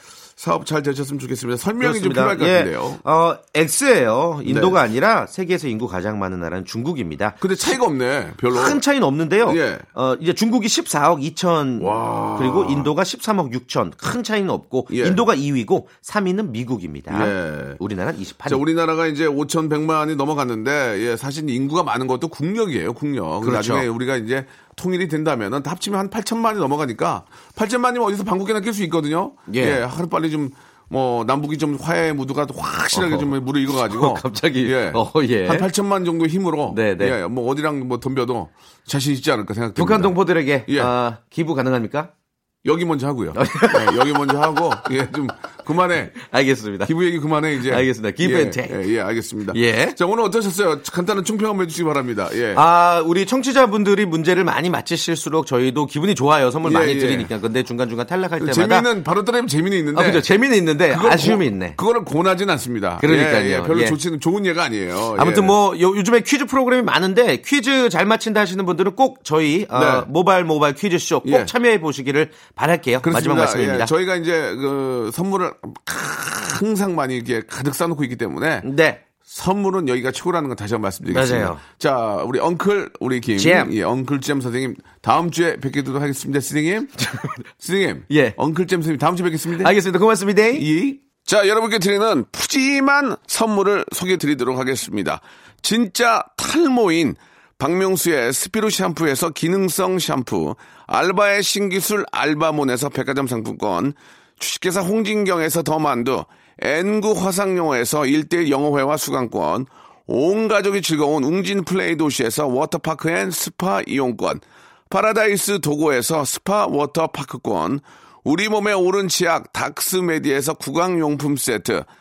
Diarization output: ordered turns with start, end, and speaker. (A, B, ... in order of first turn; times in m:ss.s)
0:00.4-0:03.0 A
0:01.8-0:07.4 B
0:04.4-0:04.8 A
0:07.4-0:08.8 A
0:08.5-0:18.6 B
0:09.4-0:09.9 A
0:11.8-0:12.9 A
0:14.9-0:15.2 A
0:17.1-0:17.8 A
0:18.5-0:40.9 A
0:23.4-0:23.9 B
0:29.5-0:29.8 B
0:32.9-0:35.7 B
0:36.7-0:37.2 B
0:39.8-0:42.1 B
0:42.6-0:46.2 A
0:43.4-0:44.1 B
0:46.2-0:46.9 B
0:46.8-0:52.6 A
0:47.6-0:48.8 B
0:49.5-0:50.0 B
0:52.6-0:58.9 B
0:56.6-0:57.3 A
0:58.4-1:00.3 A
0:59.9-1:01.8 B
1:00.9-1:05.6 A
1:03.0-1:04.0 B
1:05.2-1:13.9 B
1:09.7-1:10.1 A
1:11.2-1:11.5 A
1:13.0-1:18.7 A
1:18.6-1:19.0 B
1:19.2-1:27.0 A
1:21.1-1:21.6 B
1:23.4-1:23.7 B
1:27.0-1:27.4 B
1:27.6-1:29.8 A
1:28.1-1:28.4 B
1:29.6-1:30.7 B
1:30.5-2:01.9 A